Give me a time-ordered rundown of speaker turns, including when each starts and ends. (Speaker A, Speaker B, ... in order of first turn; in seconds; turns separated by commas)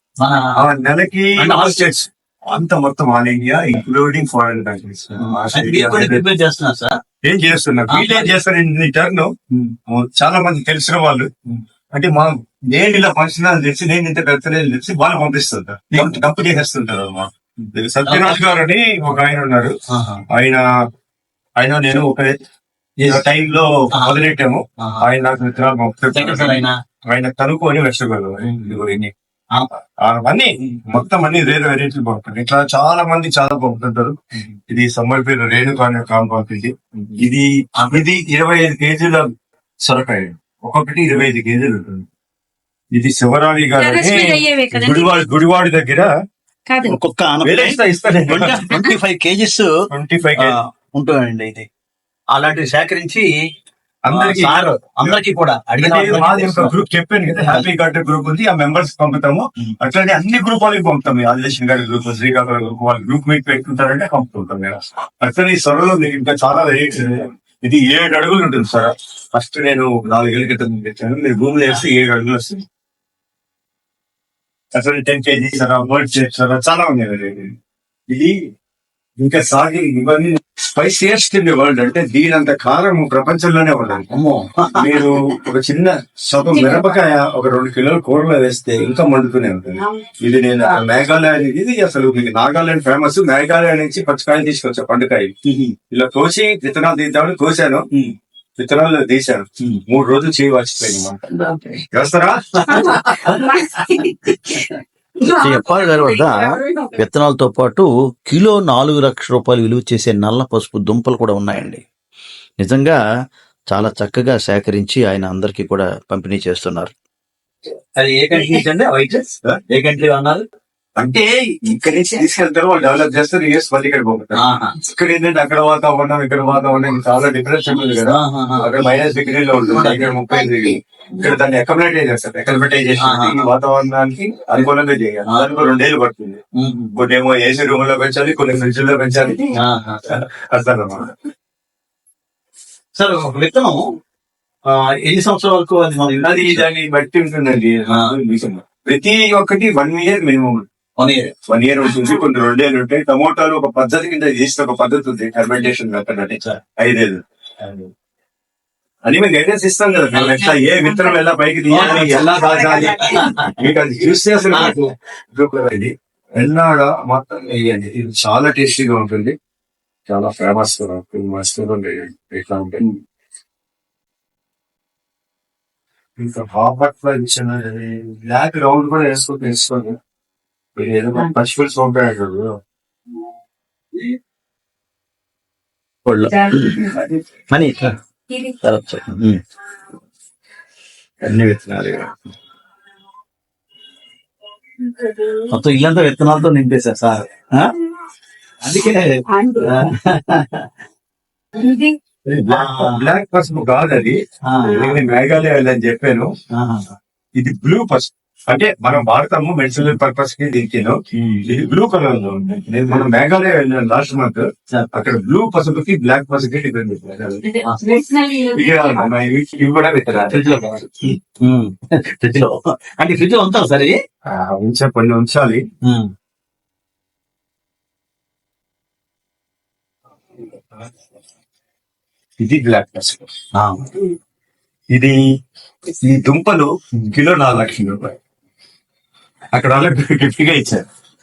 Speaker A: 0.2-0.5, Speaker B: 0.6-6.2, Speaker A: 1.4-1.8, Speaker A: 5.2-7.0, Speaker B: 7.3-9.3, Speaker A: 7.9-8.3, Speaker B: 9.9-11.3, Speaker B: 11.9-19.7, Speaker A: 15.9-16.2, Speaker A: 18.1-18.4, Speaker A: 19.9-20.2, Speaker B: 20.3-20.6, Speaker B: 21.6-22.4, Speaker A: 23.0-23.2, Speaker B: 23.0-29.1, Speaker A: 23.9-24.2, Speaker A: 26.1-26.8, Speaker B: 30.1-39.3, Speaker B: 39.9-42.0, Speaker B: 42.9-46.1, Speaker C: 43.8-45.2, Speaker C: 46.7-47.0, Speaker A: 46.9-49.7, Speaker B: 47.4-48.7, Speaker B: 49.9-50.5, Speaker A: 50.3-51.7, Speaker A: 52.3-53.3, Speaker B: 54.0-55.2, Speaker A: 54.1-56.7, Speaker B: 55.8-72.6, Speaker A: 57.4-57.7, Speaker B: 74.7-77.5, Speaker B: 79.2-84.1, Speaker A: 84.1-85.1, Speaker B: 84.7-95.3, Speaker C: 86.5-87.0, Speaker A: 95.5-95.8, Speaker B: 95.9-97.9, Speaker B: 98.6-101.2, Speaker C: 101.3-101.8, Speaker B: 101.9-103.0, Speaker C: 102.7-104.7, Speaker C: 105.2-107.0, Speaker D: 105.3-111.8, Speaker D: 112.6-113.0, Speaker D: 113.7-116.9, Speaker A: 118.0-120.4, Speaker B: 118.3-119.6, Speaker B: 121.0-136.4, Speaker A: 124.3-124.8, Speaker A: 127.7-128.8, Speaker A: 129.7-130.2, Speaker A: 133.0-133.4, Speaker A: 136.6-136.9, Speaker B: 136.9-139.6, Speaker A: 139.6-140.0, Speaker B: 140.1-141.1, Speaker A: 143.0-144.0, Speaker A: 144.7-146.6, Speaker B: 146.2-150.6, Speaker A: 151.0-151.3, Speaker B: 151.5-157.9, Speaker B: 159.1-169.3, Speaker A: 160.1-160.5, Speaker C: 160.8-161.2, Speaker A: 161.7-163.6, Speaker C: 162.3-163.2, Speaker B: 170.1-172.9, Speaker B: 176.2-180.0, Speaker B: 180.8-182.6, Speaker A: 186.1-186.8, Speaker C: 186.3-187.0, Speaker A: 187.5-187.9, Speaker C: 188.3-188.6, Speaker A: 188.6-189.4, Speaker B: 191.2-192.1, Speaker C: 194.9-195.5, Speaker A: 195.5-197.7, Speaker A: 198.6-200.7, Speaker C: 199.3-199.9, Speaker C: 201.6-202.0, Speaker B: 202.3-206.3, Speaker A: 202.5-203.1, Speaker A: 204.5-204.8, Speaker C: 204.7-205.0, Speaker A: 206.5-206.8, Speaker B: 207.4-217.4, Speaker C: 217.4-219.1, Speaker B: 218.5-220.9, Speaker A: 220.3-224.0, Speaker B: 224.3-225.6, Speaker A: 225.8-226.1, Speaker B: 232.4-233.3, Speaker A: 233.6-233.9, Speaker B: 236.0-238.2, Speaker B: 239.5-240.8